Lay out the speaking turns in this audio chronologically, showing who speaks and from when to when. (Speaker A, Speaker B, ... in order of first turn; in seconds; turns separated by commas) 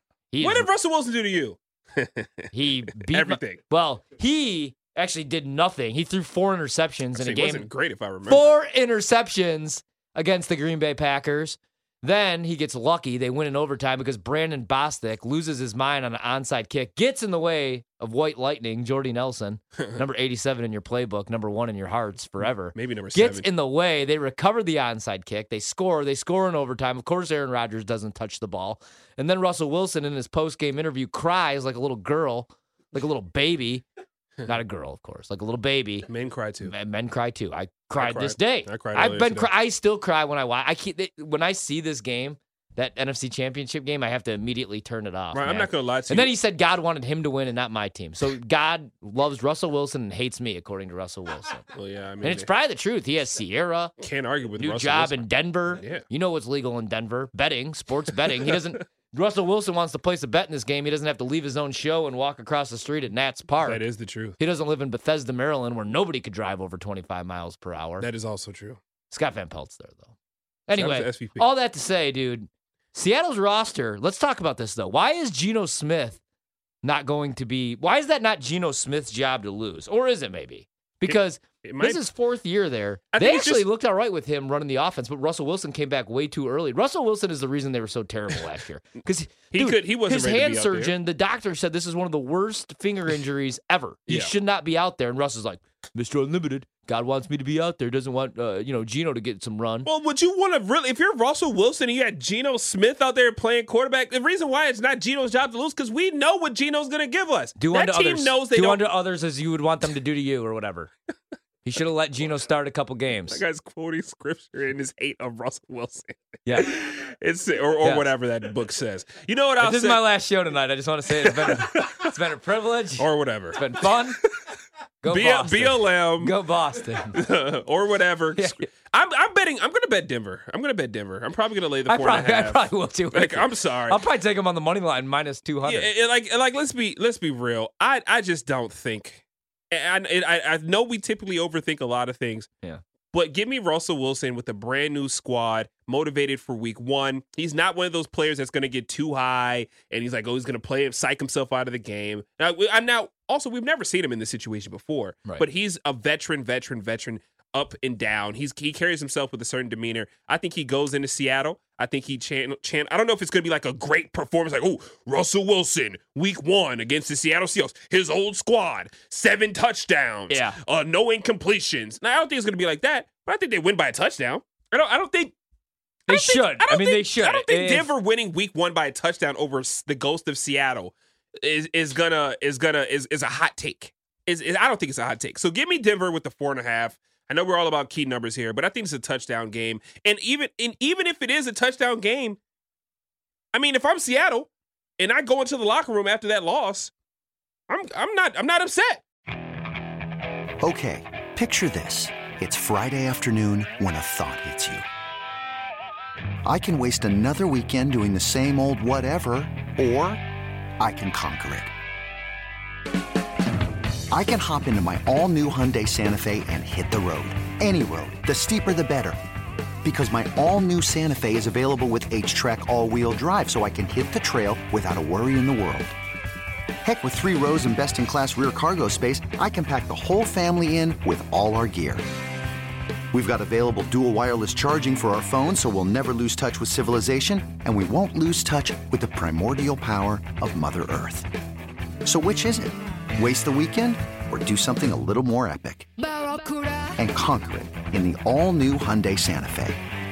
Speaker A: 0.3-0.7, Speaker B: 0.4-2.5, Speaker A: 2.5-7.7, Speaker B: 3.1-3.6, Speaker B: 7.1-8.5, Speaker A: 8.2-33.8, Speaker B: 22.7-23.5, Speaker A: 34.5-36.1, Speaker B: 36.1-36.7, Speaker A: 36.6-51.7, Speaker B: 38.0-39.5, Speaker B: 45.3-46.3, Speaker B: 51.7-52.5, Speaker A: 52.2-53.9, Speaker B: 54.0-55.2, Speaker A: 54.6-63.8, Speaker B: 55.8-56.0, Speaker B: 63.6-64.4, Speaker A: 64.4-68.1, Speaker B: 68.0-68.8, Speaker A: 69.1-70.1, Speaker A: 70.7-76.2, Speaker B: 70.7-71.5, Speaker A: 76.8-99.9, Speaker B: 81.0-82.0, Speaker B: 83.1-83.7, Speaker B: 89.5-91.0, Speaker B: 94.1-94.3, Speaker B: 99.8-108.8, Speaker A: 107.6-110.9, Speaker A: 111.6-113.4, Speaker B: 113.3-120.0, Speaker A: 116.5-116.7, Speaker A: 117.8-118.1, Speaker A: 119.6-124.2, Speaker B: 121.4-122.0, Speaker B: 123.0-123.6, Speaker A: 125.0-127.2, Speaker B: 125.1-126.3, Speaker B: 127.1-134.0, Speaker A: 128.3-128.6, Speaker A: 131.9-135.9, Speaker B: 135.6-142.5, Speaker B: 143.1-175.3, Speaker A: 170.3-170.6, Speaker A: 176.1-177.9, Speaker B: 176.1-192.4, Speaker B: 193.5-196.9, Speaker B: 197.7-199.0, Speaker C: 200.6-204.8, Speaker C: 206.5-210.2, Speaker C: 210.8-211.7, Speaker C: 214.1-219.2, Speaker C: 219.8-225.9, Speaker C: 226.8-232.0, Speaker C: 233.1-241.3, Speaker C: 242.1-245.9, Speaker C: 247.0-249.8